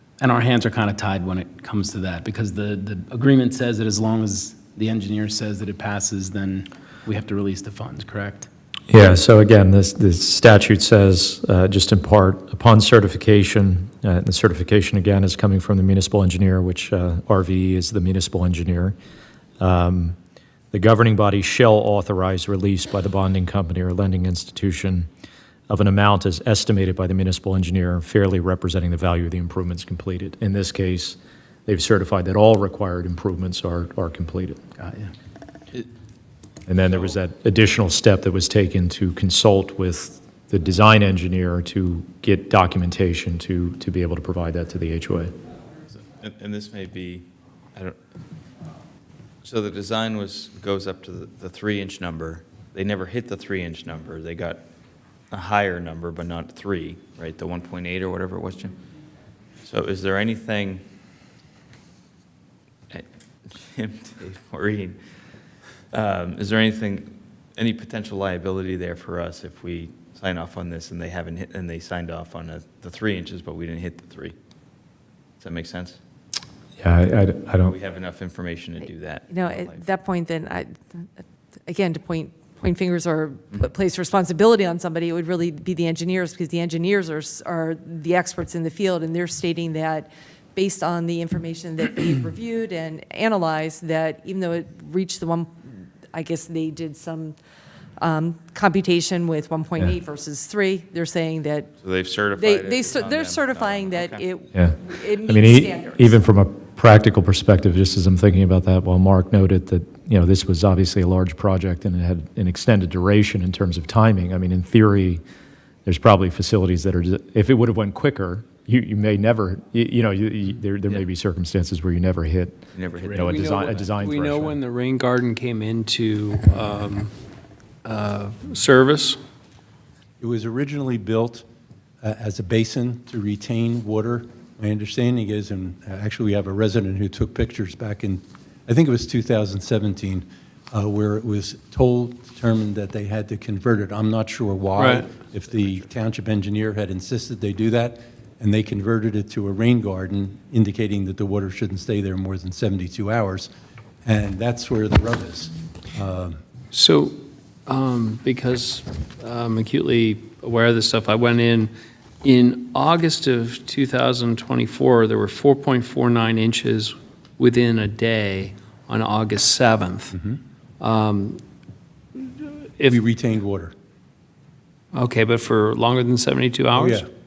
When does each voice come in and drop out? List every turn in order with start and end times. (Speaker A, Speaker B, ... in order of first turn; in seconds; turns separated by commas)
Speaker A: 0.2-8.5, Speaker B: 8.9-18.9, Speaker B: 19.6-20.2, Speaker B: 20.7-25.1, Speaker B: 25.7-34.6, Speaker A: 34.8-35.1, Speaker B: 36.7-45.3, Speaker C: 46.2-48.0, Speaker C: 49.4-54.6, Speaker C: 55.3-58.8, Speaker C: 59.6-60.8, Speaker C: 62.9-65.0, Speaker C: 65.9-74.3, Speaker C: 75.4-76.0, Speaker B: 76.8-77.7, Speaker C: 77.6-79.8, Speaker D: 79.3-81.0, Speaker D: 81.7-95.6, Speaker D: 96.1-97.4, Speaker D: 98.0-101.7, Speaker C: 101.8-104.2, Speaker D: 102.3-106.1, Speaker B: 104.5-115.2, Speaker B: 115.9-124.6, Speaker C: 122.8-123.3, Speaker E: 123.2-127.1, Speaker E: 127.8-129.2, Speaker F: 130.2-131.5, Speaker F: 132.0-153.5, Speaker E: 144.8-145.1, Speaker C: 145.5-145.8, Speaker F: 154.1-156.4, Speaker E: 156.7-161.7, Speaker E: 162.2-170.1, Speaker F: 170.1-170.4, Speaker E: 170.8-171.4, Speaker E: 172.2-173.0, Speaker F: 172.9-173.7, Speaker E: 174.9-177.1, Speaker F: 176.8-177.0